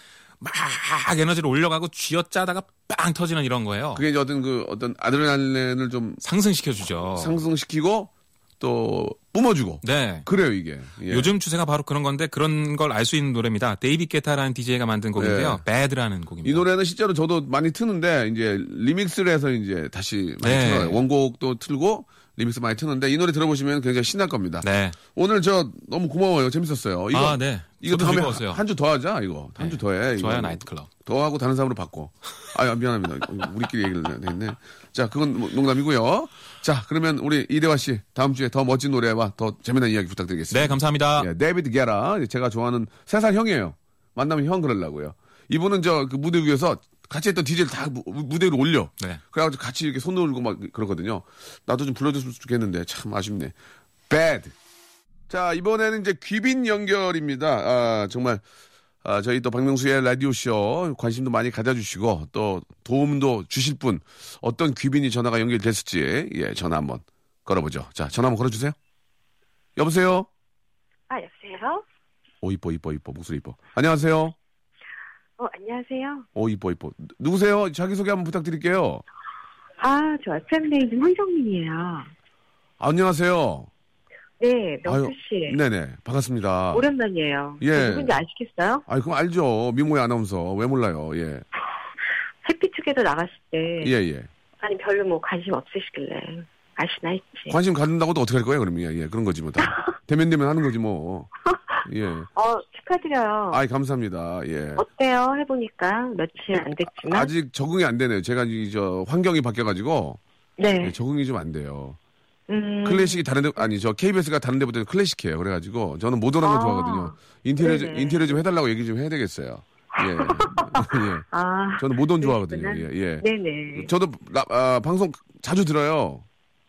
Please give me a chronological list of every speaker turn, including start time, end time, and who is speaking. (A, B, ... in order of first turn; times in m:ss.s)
0:00.4-0:04.0 A
0:03.9-0:06.2 B
0:06.2-0:07.4 A
0:07.2-0:11.3 B
0:09.8-0:10.3 A
0:11.1-0:16.6 A
0:15.2-0:15.6 B
0:16.4-0:53.5 B
0:20.4-0:21.0 A
0:24.6-0:25.0 A
0:27.1-0:28.6 A
0:29.6-0:30.9 A
0:40.5-0:41.3 A
0:54.1-0:54.5 B
0:55.3-0:58.4 B
0:59.0-1:08.8 B
1:09.8-1:10.3 B
1:11.1-1:11.8 C
1:12.4-1:14.3 B
1:15.4-1:16.2 C
1:16.3-1:19.0 B
1:19.8-1:22.1 C
1:22.8-1:23.7 B
1:24.4-1:25.6 C
1:24.8-1:26.9 B
1:26.7-1:28.8 C
1:27.6-1:28.2 B
1:28.9-1:31.4 B
1:32.4-1:33.9 C
1:33.8-1:34.3 B
1:34.6-1:37.6 C
1:37.5-1:41.3 B
1:41.8-1:42.3 B
1:42.3-1:43.6 C
1:43.5-1:44.8 B
1:44.8-1:47.3 C
1:46.9-1:50.2 B
1:50.6-1:51.0 C
1:50.8-1:52.0 B
1:52.5-1:53.2 C
1:52.8-2:01.2 B
1:56.4-1:58.4 C
2:00.0-2:03.9 C
2:01.8-2:06.2 B